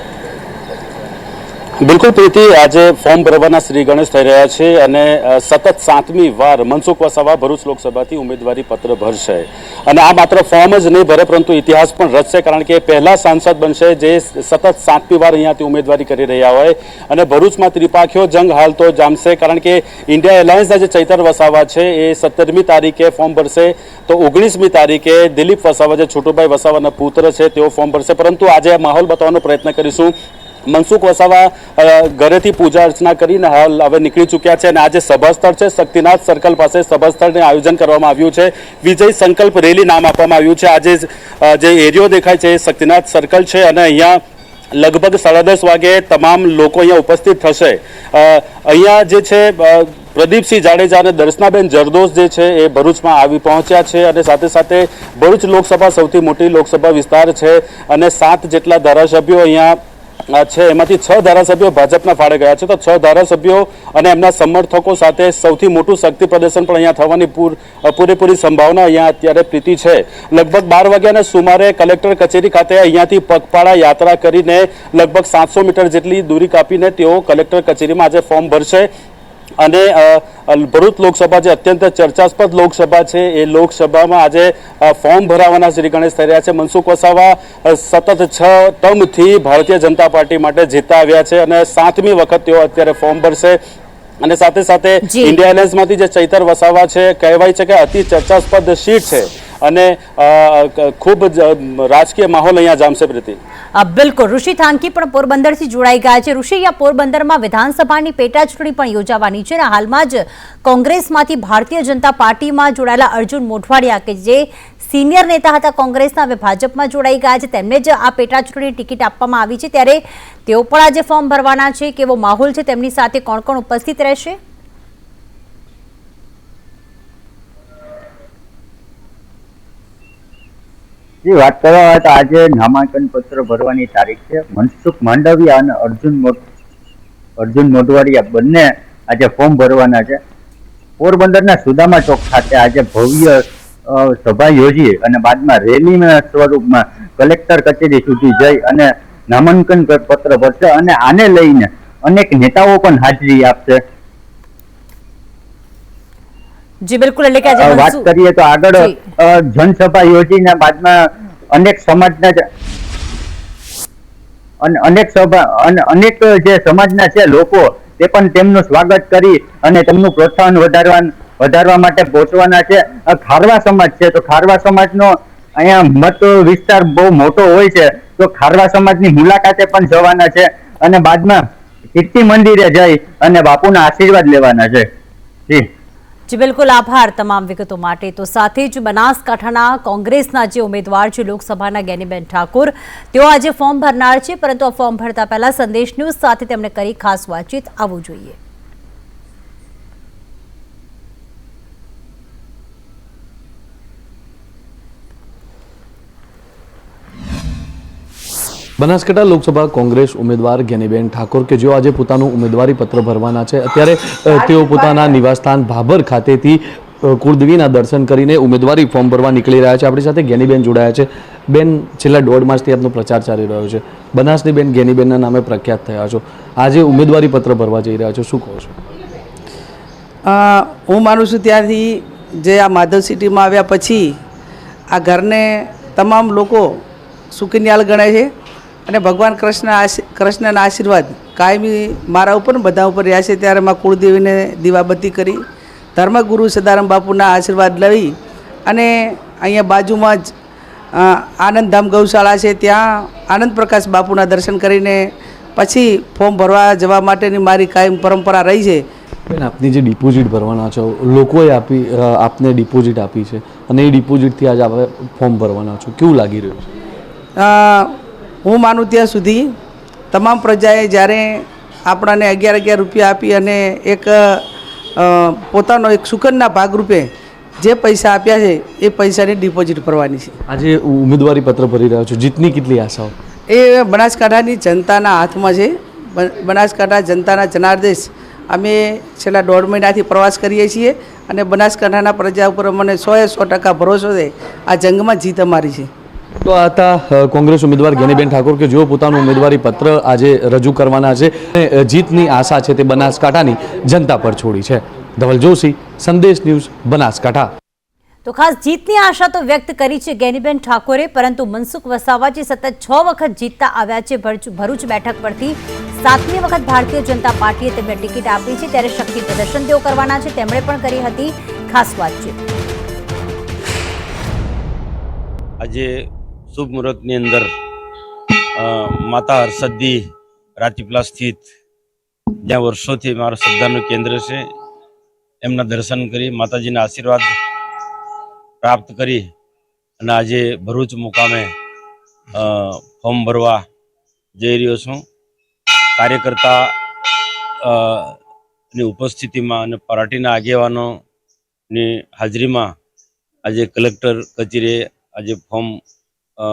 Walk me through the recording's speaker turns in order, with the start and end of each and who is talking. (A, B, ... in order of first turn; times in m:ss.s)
0:01.8-0:30.1 A
0:30.7-0:44.2 A
0:44.8-0:59.8 A
1:00.4-1:18.9 A
1:19.6-1:33.6 A
1:34.2-1:43.4 A
1:35.1-1:35.4 B
1:43.8-2:04.4 B
2:11.2-2:16.4 C
2:17.4-2:20.2 C
2:21.0-2:33.8 C
2:36.8-2:38.1 B
2:37.6-2:41.0 C
2:41.5-2:42.4 C
2:44.6-3:01.4 C
3:02.0-3:04.8 C
3:06.3-3:18.4 B
3:28.8-3:48.8 D
3:50.3-3:54.1 E
3:54.9-3:56.7 E
3:57.3-3:58.3 E
3:58.9-4:05.4 E
4:06.0-4:08.1 E
4:08.7-4:10.3 E
4:10.9-4:15.0 E
4:15.6-4:18.8 E
4:19.3-4:26.7 D
4:27.4-4:27.9 E
4:28.4-4:29.5 E
4:30.1-4:34.4 E
4:35.0-4:37.1 E
4:37.6-4:40.3 E
4:40.5-4:43.1 D
4:43.5-4:55.9 E
4:56.4-5:07.5 D
5:08.2-5:22.4 B
5:26.6-5:27.4 F
5:29.2-5:29.9 F
5:30.6-5:31.4 F
5:32.5-5:34.4 F
5:35.4-5:37.2 F
5:38.6-5:39.2 F
5:40.0-5:41.4 F
5:43.0-5:43.6 F
5:44.4-5:44.9 F
5:46.0-5:46.5 F
5:48.8-5:50.8 F
5:51.7-5:52.6 F
5:53.4-5:55.6 F